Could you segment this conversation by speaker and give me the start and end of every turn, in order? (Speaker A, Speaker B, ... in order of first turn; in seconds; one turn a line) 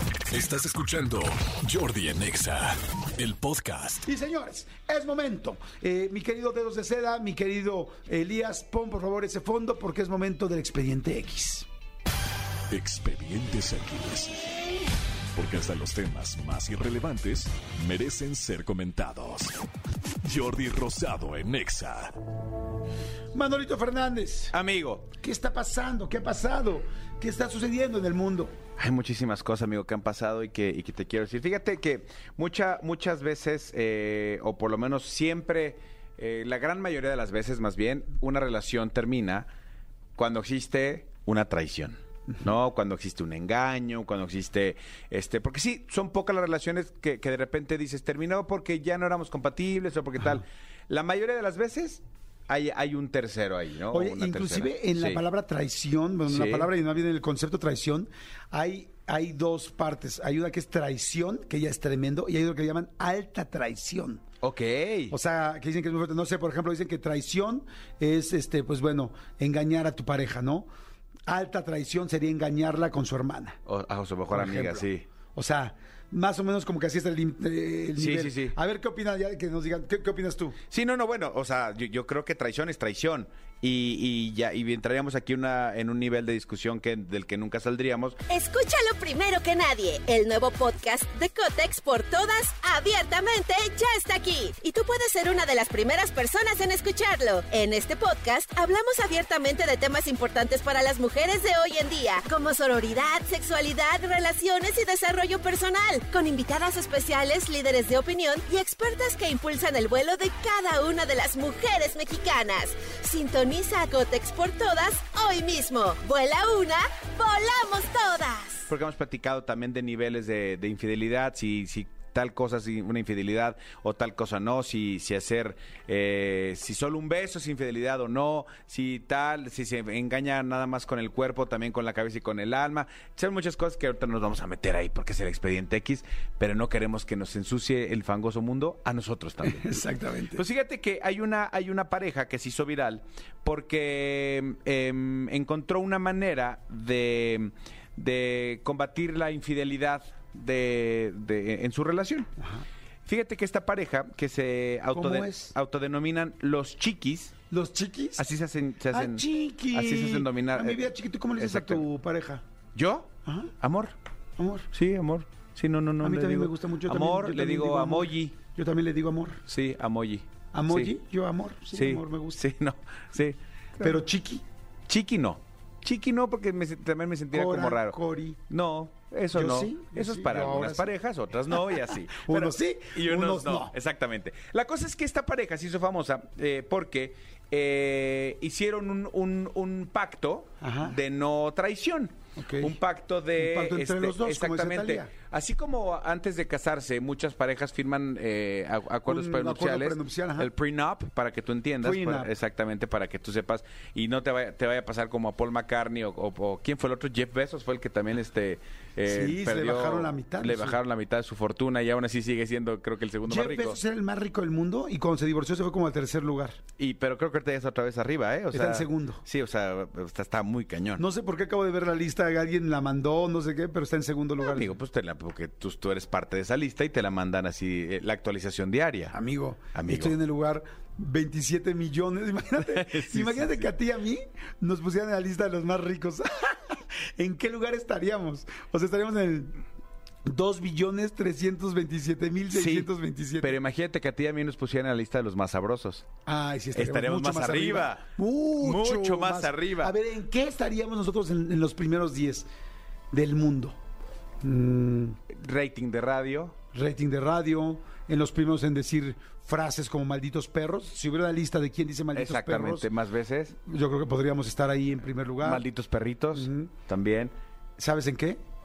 Speaker A: 0.3-4.0
Speaker B: 4.0-11.7
Speaker A: 12.7-14.6
Speaker A: 15.3-19.5
Speaker A: 20.2-22.1
Speaker B: 23.3-24.5
Speaker C: 24.5-25.1
Speaker B: 25.2-28.6
Speaker C: 28.8-39.5
Speaker C: 40.2-55.2
Speaker B: 53.9-64.2
Speaker C: 56.3-56.7
Speaker C: 64.4-65.1
Speaker B: 65.1-70.7
Speaker B: 71.3-73.6
Speaker C: 73.7-75.0
Speaker B: 74.3-80.6
Speaker C: 78.0-78.5
Speaker C: 80.7-88.2
Speaker D: 88.3-118.7
Speaker C: 118.7-139.7
Speaker B: 139.4-140.4
Speaker C: 140.3-152.3
Speaker C: 153.0-157.3
Speaker B: 154.9-155.5
Speaker B: 157.5-158.2
Speaker C: 158.2-160.8
Speaker B: 158.9-162.4
Speaker C: 161.3-161.8
Speaker C: 162.7-163.1
Speaker B: 163.2-163.5
Speaker C: 163.6-163.9
Speaker B: 164.4-164.7
Speaker C: 164.7-168.4
Speaker B: 166.0-169.4
Speaker C: 169.5-170.9
Speaker B: 170.5-172.4
Speaker C: 171.7-173.4
Speaker B: 173.8-174.4
Speaker C: 174.9-178.0
Speaker B: 177.3-178.4
Speaker C: 178.5-213.8
Speaker B: 179.3-180.9
Speaker B: 181.7-183.7
Speaker B: 190.6-191.0
Speaker B: 192.3-192.8
Speaker B: 193.4-195.1
Speaker B: 199.1-200.5
Speaker B: 201.8-202.3
Speaker B: 209.0-210.8
Speaker B: 213.2-216.6
Speaker C: 216.8-221.0
Speaker B: 218.5-219.2
Speaker B: 221.0-224.7
Speaker C: 224.4-229.2
Speaker B: 229.1-239.6
Speaker C: 229.7-230.2
Speaker C: 232.7-233.7
Speaker B: 240.2-243.6
Speaker C: 242.5-246.1
Speaker B: 246.2-252.4
Speaker C: 246.7-248.1
Speaker C: 248.6-249.9
Speaker B: 253.1-253.8
Speaker B: 254.4-255.2
Speaker C: 255.3-256.6
Speaker B: 256.7-262.9
Speaker C: 262.1-263.5
Speaker B: 263.6-265.6
Speaker C: 265.4-267.3
Speaker B: 266.4-266.7
Speaker B: 267.8-268.4